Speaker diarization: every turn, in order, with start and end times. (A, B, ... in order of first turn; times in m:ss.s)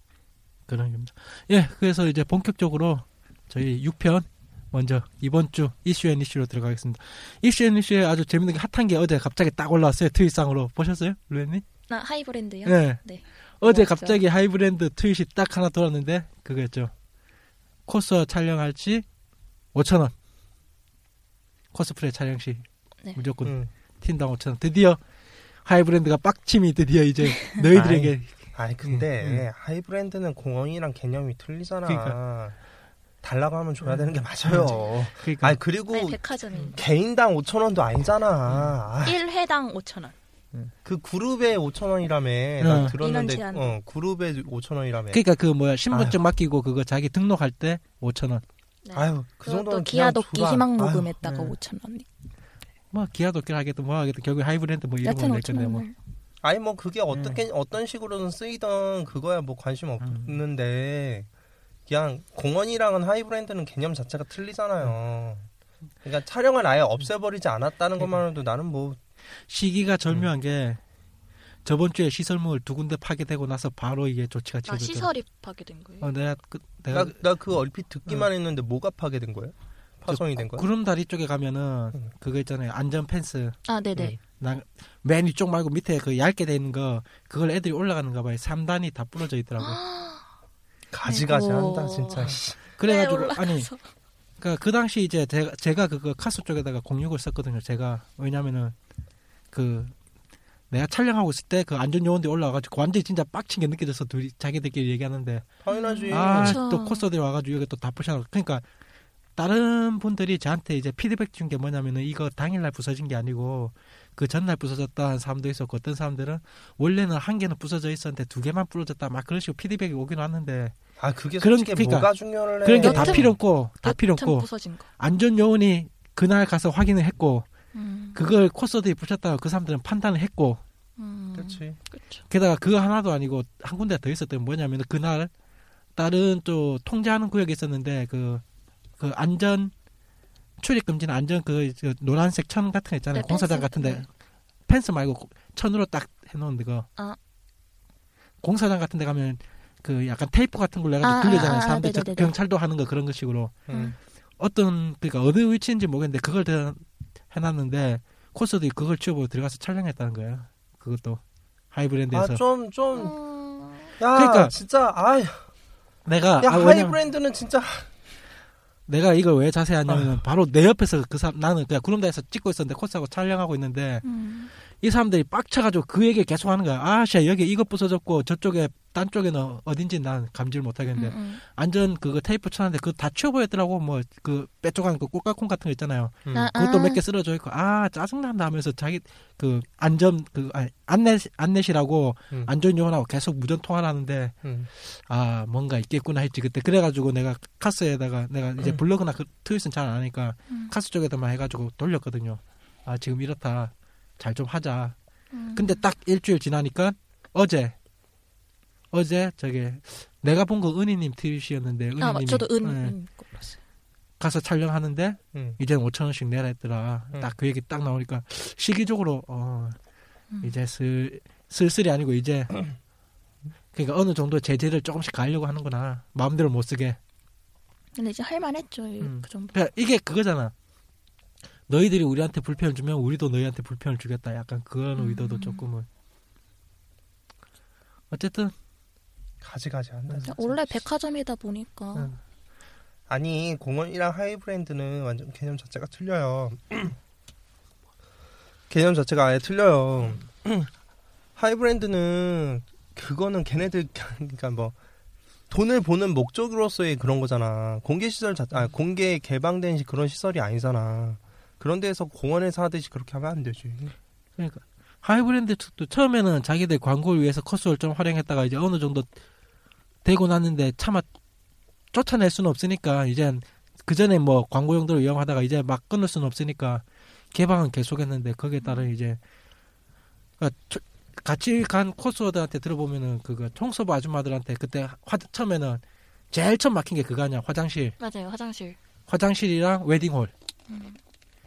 0:00.7-0:11.6 A
0:11.9-0:14.2 B
0:12.6-0:13.0 A
0:13.6-0:16.9 A
0:17.9-0:19.0 A
0:19.7-0:20.1 A
0:21.7-0:25.0 A
0:23.4-0:23.7 C
0:25.6-0:29.4 A
0:27.7-0:32.6 C
0:31.8-0:32.2 A
0:33.2-0:36.2 C
0:33.9-0:35.6 A
0:35.9-0:36.8 B
0:36.7-0:39.2 C
0:38.5-0:38.7 A
0:39.0-0:40.1 B
0:40.8-0:45.2 C
0:42.6-0:43.0 A
0:42.8-0:43.8 B
0:45.1-0:48.4 A
0:45.9-0:46.2 C
0:48.8-0:52.1 B
0:48.9-0:51.4 C
0:51.2-0:51.5 A
0:52.9-0:55.8 A
0:55.0-0:55.9 B
0:56.4-1:01.3 C
0:57.1-0:57.4 A
1:00.0-1:00.4 A
1:01.9-1:05.5 C
1:06.0-1:09.0 C
1:09.5-1:10.8 A
1:11.6-1:15.1 A
1:14.6-1:16.1 B
1:16.0-1:17.2 A
1:16.9-1:20.7 C
1:20.1-1:29.8 A
1:23.7-1:24.2 B
1:29.6-1:30.2 B
1:30.9-1:32.6 C
1:31.0-1:33.8 B
1:32.8-1:33.7 A
1:34.4-1:38.7 A
1:39.5-1:39.9 A
1:40.7-1:45.5 A
1:45.6-1:46.6 C
1:45.7-1:47.0 B
1:46.1-1:48.6 A
1:49.4-2:00.8 A
2:01.0-2:03.3 C
2:01.4-2:07.5 A
2:02.8-2:04.9 B
2:07.7-2:08.2 B
2:08.1-2:10.6 A
2:11.0-2:12.2 B
2:11.4-2:11.8 C
2:12.3-2:15.3 A
2:16.0-2:18.4 A
2:19.0-2:19.7 A
2:20.6-2:24.1 A
2:23.1-2:24.0 B
2:24.7-2:26.9 A
2:28.4-2:33.6 A
2:31.0-2:32.3 B
2:33.7-2:34.0 C
2:33.7-2:34.0 B
2:34.4-2:42.4 A
2:42.1-2:43.1 C
2:42.9-2:43.9 B
2:44.0-2:45.4 C
2:44.1-2:44.5 A
2:46.0-2:47.0 A
2:46.4-2:47.9 C
2:48.9-2:54.0 A
2:49.9-2:50.2 C
2:54.0-2:54.5 B
2:54.8-3:25.0 A
3:00.9-3:01.4 B
3:06.2-3:06.5 C
3:06.3-3:07.0 B
3:14.4-3:14.7 C
3:25.3-3:25.8 B
3:25.5-3:27.8 A
3:28.9-3:33.0 A
3:32.0-3:33.6 B
3:34.2-3:39.8 A
3:35.3-3:35.6 C
3:40.4-3:42.6 A
3:43.7-3:47.0 A
3:47.9-3:49.5 B
3:49.0-3:50.5 A
3:51.7-3:55.9 A
3:54.9-3:55.6 B
3:58.1-3:58.5 A
3:59.4-4:00.8 C
4:00.2-4:02.1 B
4:03.1-4:07.0 C
4:08.7-4:10.7 C
4:11.4-4:14.7 C
4:15.5-4:24.0 C
4:24.4-4:29.1 A
4:30.0-4:31.1 A
4:31.9-4:39.2 A
4:40.4-4:48.0 A
4:48.0-4:48.8 B
4:49.1-4:50.3 A
4:50.7-4:51.0 B